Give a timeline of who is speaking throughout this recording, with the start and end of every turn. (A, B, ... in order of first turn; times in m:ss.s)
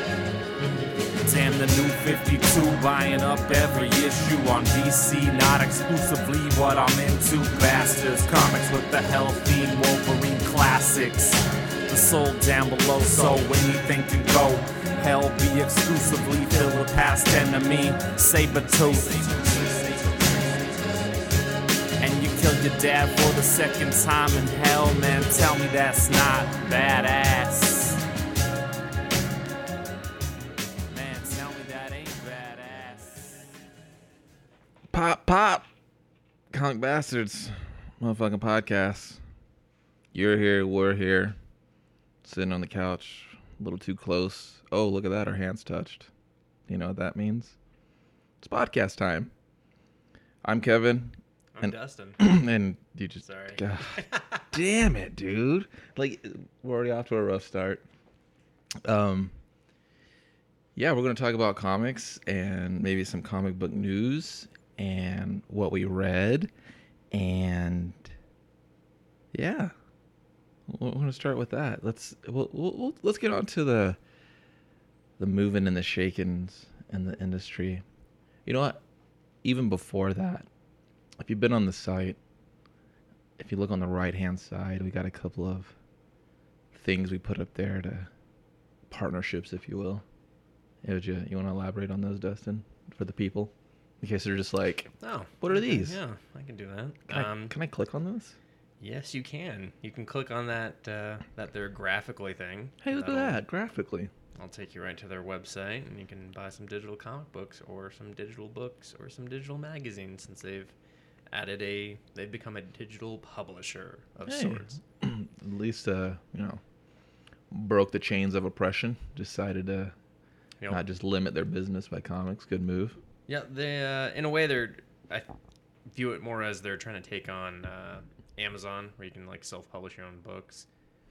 0:01.2-0:19.5 A
0:19.0-0:21.0 B
0:22.0-0:28.0 A
0:30.9-0:33.5 A
0:34.9-0:35.7 C
0:36.5-0:39.2 C
0:40.1-0:41.4 C
0:42.2-0:46.1 C
0:46.7-0:47.6 C
0:48.4-0:49.3 C
0:50.4-0:57.8 C
0:51.6-0:52.2 B
0:53.2-0:54.4 B
0:58.8-0:59.4 C
1:00.8-1:06.5 C
1:07.1-1:08.1 C
1:09.3-1:09.7 C
1:10.7-1:14.0 C
1:15.2-1:17.8 C
1:18.4-1:18.8 C
1:19.4-1:20.5 C
1:21.2-1:22.2 C
1:23.4-1:25.7 C
1:26.7-1:28.1 C
1:28.9-1:30.0 C
1:30.8-1:36.0 C
1:35.0-1:37.6 B
1:37.1-1:38.4 C
1:38.8-1:43.4 B
1:42.8-1:44.1 C
1:44.4-1:50.7 B
1:51.3-1:54.8 B
1:54.3-1:56.6 C
1:57.5-1:59.9 C
2:00.7-2:03.0 C
2:03.3-2:05.3 B
2:05.9-2:10.7 B